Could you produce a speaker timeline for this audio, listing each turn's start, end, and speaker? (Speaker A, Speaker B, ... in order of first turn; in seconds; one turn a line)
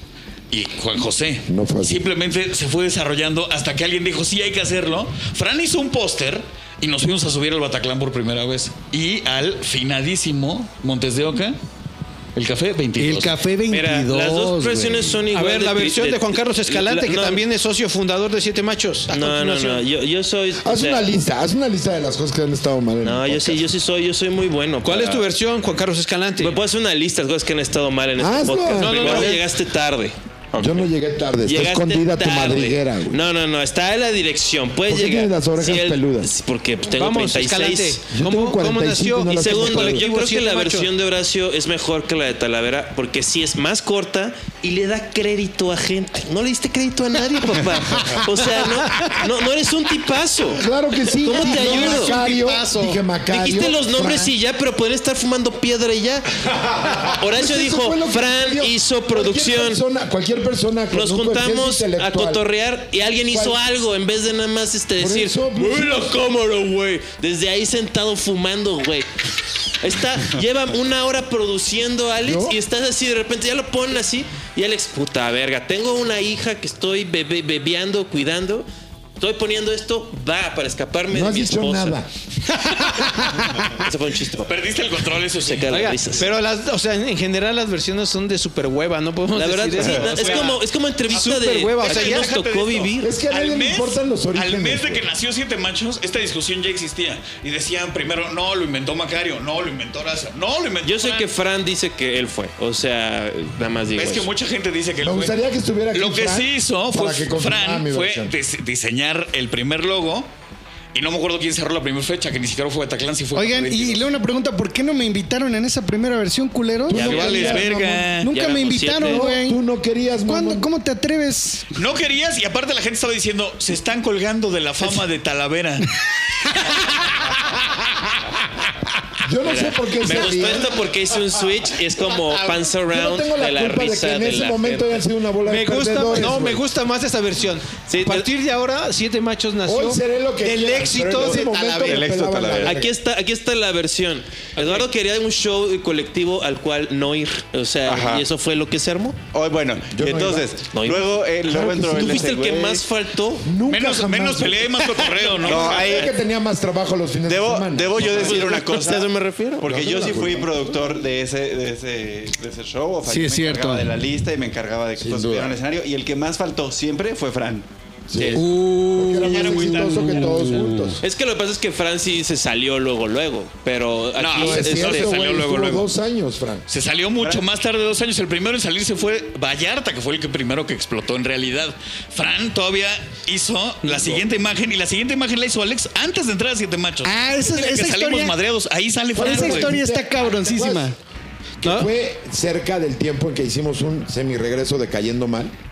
Speaker A: 0.5-11.6
Speaker B: 1.5-2.0
Speaker A: 12.3-13.4
Speaker C: 13.0-15.2
Speaker D: 13.7-17.4
Speaker E: 15.3-19.9
Speaker D: 19.1-21.1
Speaker B: 20.6-23.6
Speaker D: 23.0-25.2
Speaker E: 24.8-26.6
Speaker D: 26.4-30.1
Speaker B: 28.2-29.3
Speaker E: 28.7-29.5
Speaker F: 30.5-30.8
Speaker B: 30.6-33.2
Speaker D: 31.4-38.0
Speaker B: 34.9-36.3
Speaker E: 36.9-40.9
Speaker B: 38.1-40.0
Speaker D: 39.4-50.6
Speaker B: 50.5-54.3
Speaker D: 51.2-52.2
Speaker C: 51.3-53.0
Speaker D: 53.3-56.3
Speaker D: 57.0-59.8
Speaker B: 57.2-62.4
Speaker D: 60.9-69.1
Speaker B: 63.3-63.6
Speaker B: 65.0-66.0
Speaker D: 69.8-78.7
Speaker B: 72.2-72.6
Speaker D: 79.2-82.0
Speaker B: 81.1-82.1
Speaker D: 83.7-84.5
Speaker A: 84.5-85.9
Speaker D: 85.4-86.3
Speaker E: 85.7-92.3
Speaker D: 89.3-93.1
Speaker A: 89.8-90.6
Speaker A: 91.8-101.3
Speaker B: 93.0-95.0
Speaker D: 100.8-104.3
Speaker A: 104.0-105.4
Speaker B: 105.0-108.3
Speaker A: 105.9-110.3
Speaker A: 110.9-114.0
Speaker C: 113.3-119.6
Speaker D: 116.9-117.7
Speaker A: 116.9-118.3
Speaker B: 116.9-117.5
Speaker D: 118.3-119.2
Speaker B: 119.0-120.7
Speaker C: 120.3-121.7
Speaker A: 121.8-126.0
Speaker B: 129.2-130.7
Speaker D: 129.4-135.0
Speaker B: 132.8-136.6
Speaker E: 135.4-142.1
Speaker D: 137.9-138.3
Speaker B: 139.7-142.9
Speaker F: 141.2-142.8
Speaker D: 142.6-149.2
Speaker F: 147.9-148.3
Speaker F: 149.3-152.9
Speaker B: 149.9-150.5
Speaker D: 150.7-151.1
Speaker B: 151.4-152.3
Speaker D: 151.9-153.5
Speaker B: 153.4-158.5
Speaker A: 153.7-156.0
Speaker F: 155.4-156.1
Speaker F: 157.3-167.7
Speaker D: 158.0-160.2
Speaker B: 159.7-160.6
Speaker C: 163.1-163.9
Speaker B: 165.0-165.6
Speaker B: 168.1-171.0
Speaker C: 168.3-171.0
Speaker A: 169.2-170.5
Speaker D: 171.0-175.3
Speaker A: 174.2-175.9
Speaker B: 174.3-176.6
Speaker A: 176.7-189.8
Speaker F: 177.2-177.4
Speaker C: 187.0-188.3
Speaker B: 189.1-190.9
Speaker C: 189.2-190.9
Speaker B: 191.6-195.5
Speaker E: 191.6-191.9